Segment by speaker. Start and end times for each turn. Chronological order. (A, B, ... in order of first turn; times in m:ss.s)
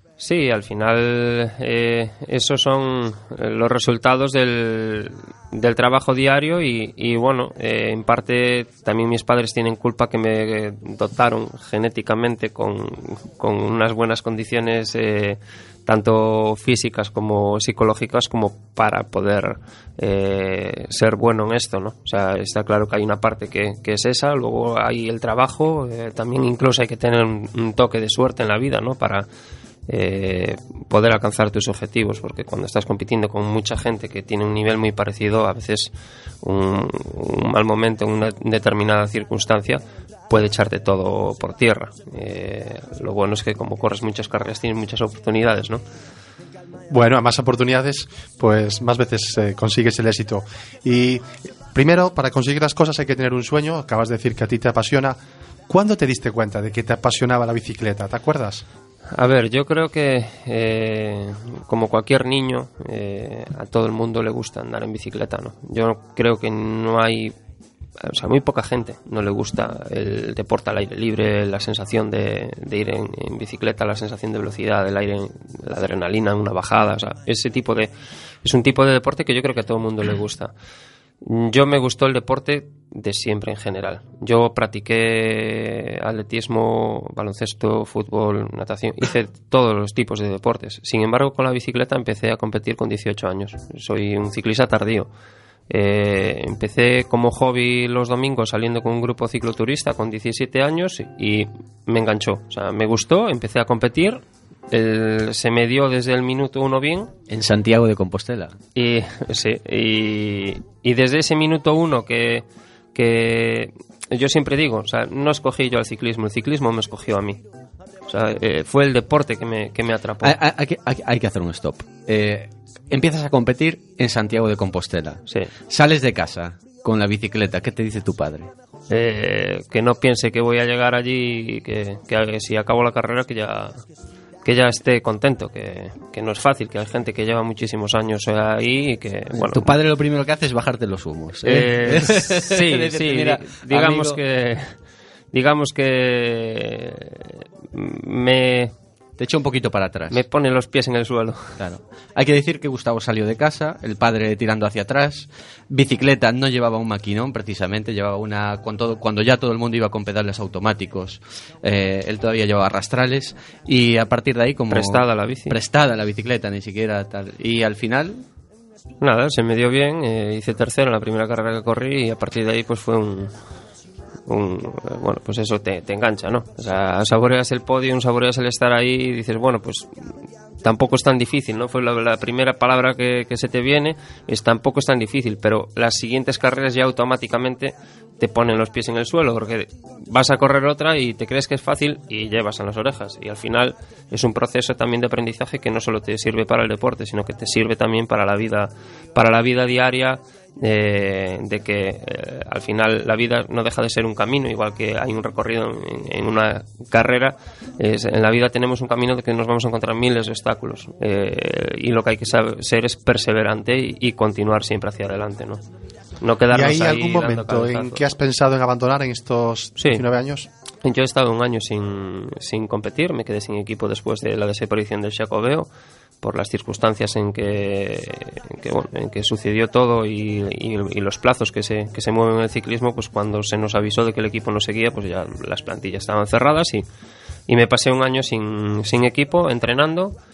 0:00.2-0:29.2 A
0:29.9-0:35.9 A
0:36.4-0:45.8 A
0:46.9-0:58.6 B
0:59.1-1:07.3 A
1:08.0-1:17.9 A
1:18.4-1:20.5 A
1:21.2-1:35.1 A
1:35.7-1:47.1 A
1:47.3-1:48.6 C
1:48.8-1:52.4 A
1:52.9-1:57.4 A
1:58.1-2:00.3 A
2:00.2-2:08.5 C
2:08.9-2:13.8 A
2:14.4-2:19.8 A
2:19.3-2:24.2 C
2:21.4-2:24.7 A
2:25.3-2:28.7 A
2:29.2-2:30.2 C
2:30.1-2:31.6 A
2:31.6-2:48.2 C
2:44.7-2:45.6 A
2:49.0-2:53.3 A
2:54.3-2:59.9 A
3:00.6-3:35.6 A
3:36.2-3:38.0 A
3:36.5-3:40.5 B
3:39.8-3:40.0 A
3:40.8-3:45.7 A
3:46.2-3:56.8 A
3:57.5-4:00.2 A